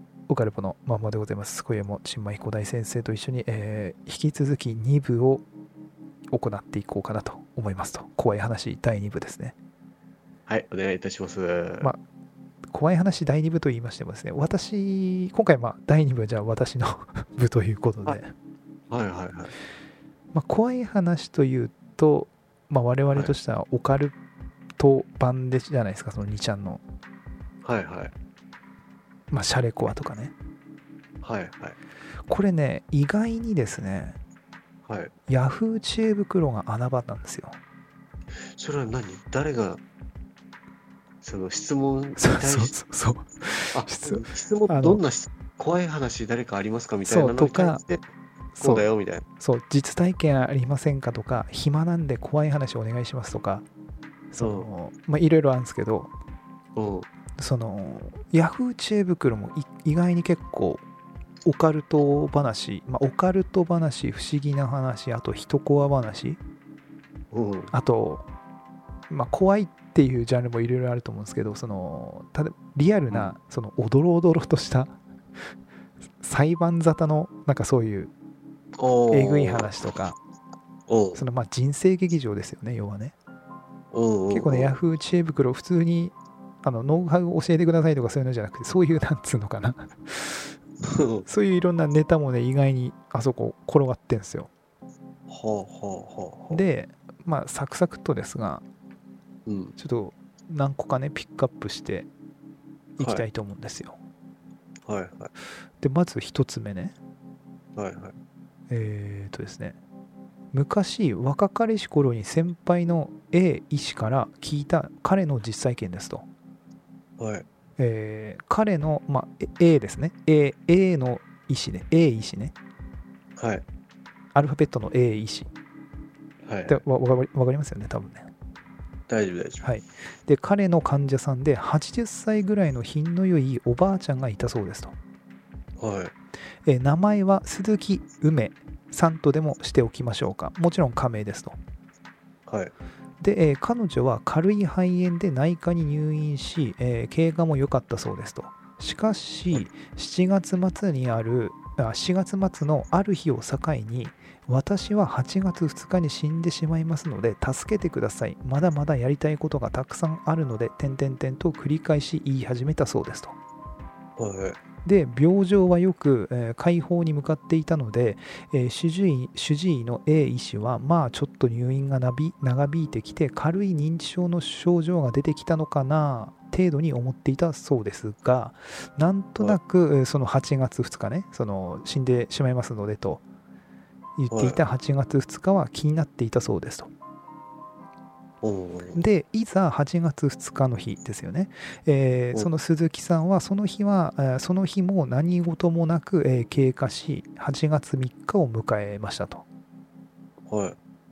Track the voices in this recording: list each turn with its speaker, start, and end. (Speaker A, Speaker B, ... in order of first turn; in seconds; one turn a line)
Speaker A: 0.3-5.5
Speaker A: 6.3-9.6
Speaker B: 10.5-11.9
Speaker A: 12.7-18.3
Speaker B: 18.9-19.5
Speaker A: 20.3-24.1
Speaker A: 24.8-26.8
Speaker B: 27.6-28.1
Speaker A: 29.3-30.3
Speaker B: 31.2-31.8
Speaker A: 32.3-34.2
Speaker B: 34.9-35.1
Speaker A: 35.3-37.6
Speaker B: 38.6-39.8
Speaker B: 41.2-42.7
Speaker A: 42.2-45.0
Speaker B: 43.7-48.0
Speaker A: 47.0-47.8
Speaker A: 48.5-48.9
Speaker B: 48.6-49.2
Speaker A: 49.4-53.7
Speaker A: 54.3-56.1
Speaker B: 54.4-54.7
Speaker B: 56.8-57.1
Speaker A: 57.4-60.8
Speaker A: 61.5-66.4
Speaker B: 67.3-67.7
Speaker A: 67.7-68.3
Speaker A: 69.1-75.0
Speaker B: 73.1-73.3
Speaker A: 76.2-78.1
Speaker B: 78.8-79.7
Speaker A: 79.1-80.2
Speaker B: 80.9-81.2
Speaker A: 81.2-83.2
Speaker B: 83.9-84.8
Speaker A: 84.3-90.5
Speaker B: 90.8-91.2
Speaker A: 91.3-94.5
Speaker B: 95.3-96.6
Speaker A: 96.5-98.6
Speaker B: 99.5-99.8
Speaker A: 99.8-102.1
Speaker A: 103.0-104.0
Speaker B: 104.9-105.3
Speaker A: 105.8-107.0
Speaker B: 107.8-108.2
Speaker A: 108.7-109.8
Speaker A: 110.5-116.3
Speaker B: 117.2-117.5
Speaker A: 117.8-122.5
Speaker B: 123.4-123.7
Speaker A: 124.3-125.5
Speaker B: 126.5-126.8
Speaker A: 126.7-128.3
Speaker B: 129.1-129.7
Speaker A: 129.6-135.0
Speaker B: 135.8-136.1
Speaker A: 136.7-141.6
Speaker B: 142.5-142.7
Speaker A: 143.2-163.4
Speaker B: 164.2-164.6
Speaker A: 164.8-183.2
Speaker A: 184.2-186.9
Speaker B: 184.3-184.6
Speaker B: 188.4-189.0
Speaker A: 188.9-199.4
Speaker B: 200.5-200.8